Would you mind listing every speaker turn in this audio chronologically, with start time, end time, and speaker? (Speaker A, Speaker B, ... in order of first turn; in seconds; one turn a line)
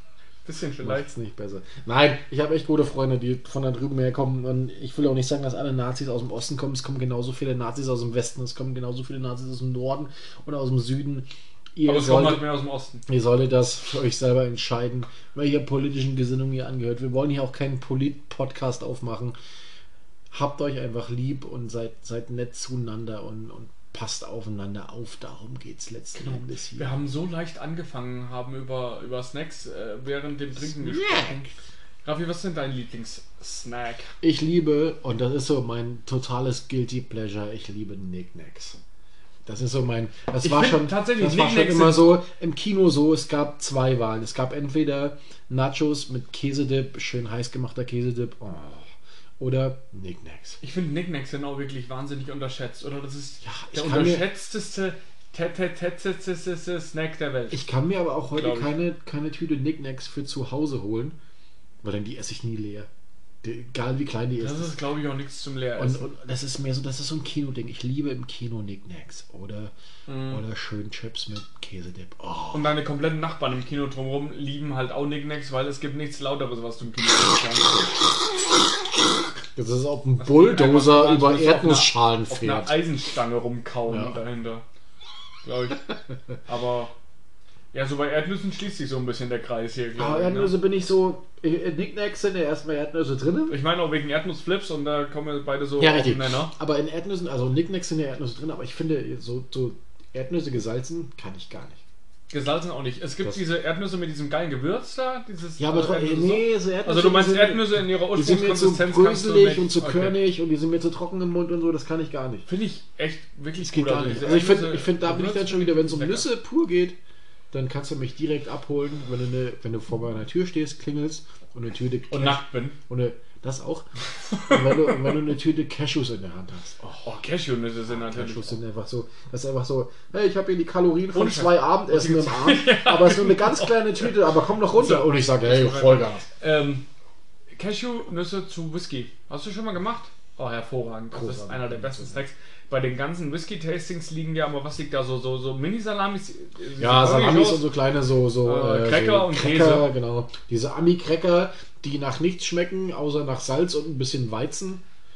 Speaker A: 0.4-1.1
Speaker B: 0.8-12.5
Speaker A: 11.8-13.0
Speaker B: 13.1-19.4
Speaker B: 20.3-27.0
Speaker A: 26.1-31.4
Speaker B: 30.6-31.5
Speaker A: 32.0-34.1
Speaker B: 34.2-38.8
Speaker B: 39.5-50.6
Speaker A: 40.4-42.1
Speaker A: 50.6-57.6
Speaker B: 53.4-54.3
Speaker B: 57.5-61.1
Speaker A: 58.3-58.7
Speaker B: 61.8-62.9
Speaker B: 63.4-64.8
Speaker A: 64.4-66.0
Speaker B: 65.8-72.8
Speaker A: 70.1-70.4
Speaker A: 72.5-78.0
Speaker B: 79.5-82.8
Speaker A: 80.2-84.6
Speaker B: 83.9-84.2
Speaker A: 85.4-86.9
Speaker A: 87.7-90.5
Speaker B: 90.0-93.6
Speaker A: 93.5-96.5
Speaker B: 95.8-101.8
Speaker A: 102.3-110.2
Speaker B: 105.6-112.5
Speaker A: 112.5-116.3
Speaker B: 113.6-117.0
Speaker B: 117.5-123.8
Speaker A: 122.1-122.8
Speaker A: 124.3-125.1
Speaker B: 124.4-127.2
Speaker A: 127.0-128.6
Speaker B: 127.9-136.2
Speaker A: 131.1-136.8
Speaker A: 137.5-147.7
Speaker B: 141.1-142.2
Speaker B: 146.8-154.8
Speaker A: 148.4-149.9